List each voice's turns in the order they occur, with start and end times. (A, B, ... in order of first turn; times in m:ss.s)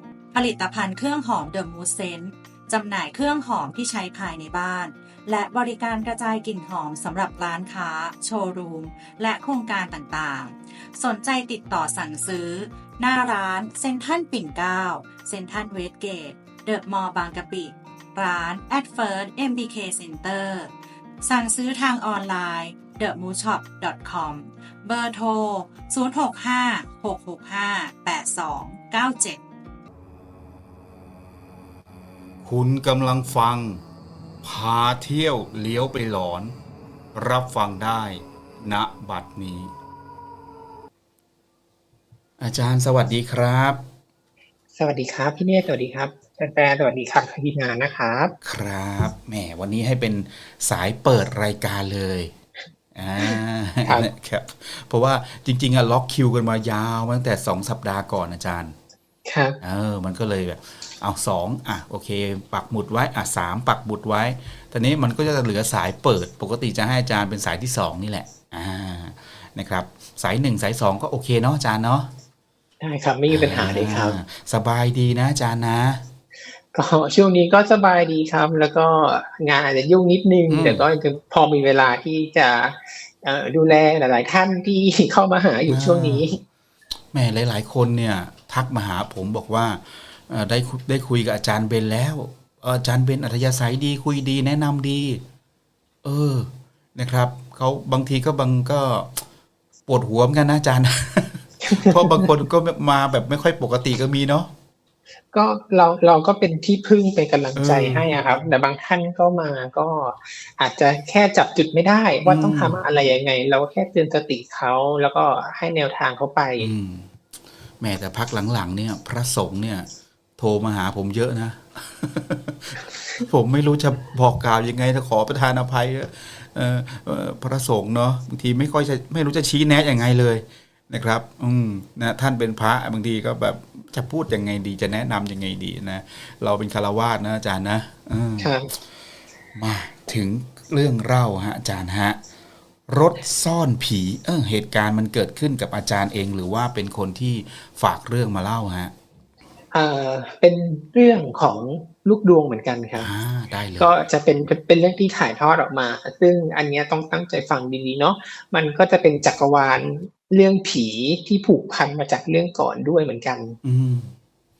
0:00.3-0:20.7 A
0:21.2-0:29.4 A
0:32.4-0:33.8 B
0:34.4-0:36.6 B
0:37.1-0:39.7 B
0:42.4-0:43.8 B
0:44.8-0:48.3 C
0:48.4-0:52.3 B
0:52.9-0:58.8 B
0:53.2-0:54.1 C
0:59.2-0:59.6 C
0:59.6-1:12.1 B
1:12.8-1:14.2 C
1:13.3-1:16.0 B
1:16.7-1:26.4 C
1:20.5-1:20.8 B
1:25.7-1:26.2 B
1:27.1-1:35.2 B
1:36.0-1:39.2 B
1:39.9-1:44.5 B
1:41.6-1:42.3 C
1:45.3-1:56.7 C
1:47.5-1:48.1 B
1:52.2-1:52.8 B
1:56.6-1:57.1 B
1:57.8-1:59.9 B
2:00.4-2:18.5 B
2:18.4-2:18.7 C
2:19.5-2:22.2 B
2:22.9-2:28.9 B
2:29.7-2:33.1 C
2:33.0-2:33.9 B
2:33.8-2:43.6 C
2:43.6-2:44.1 B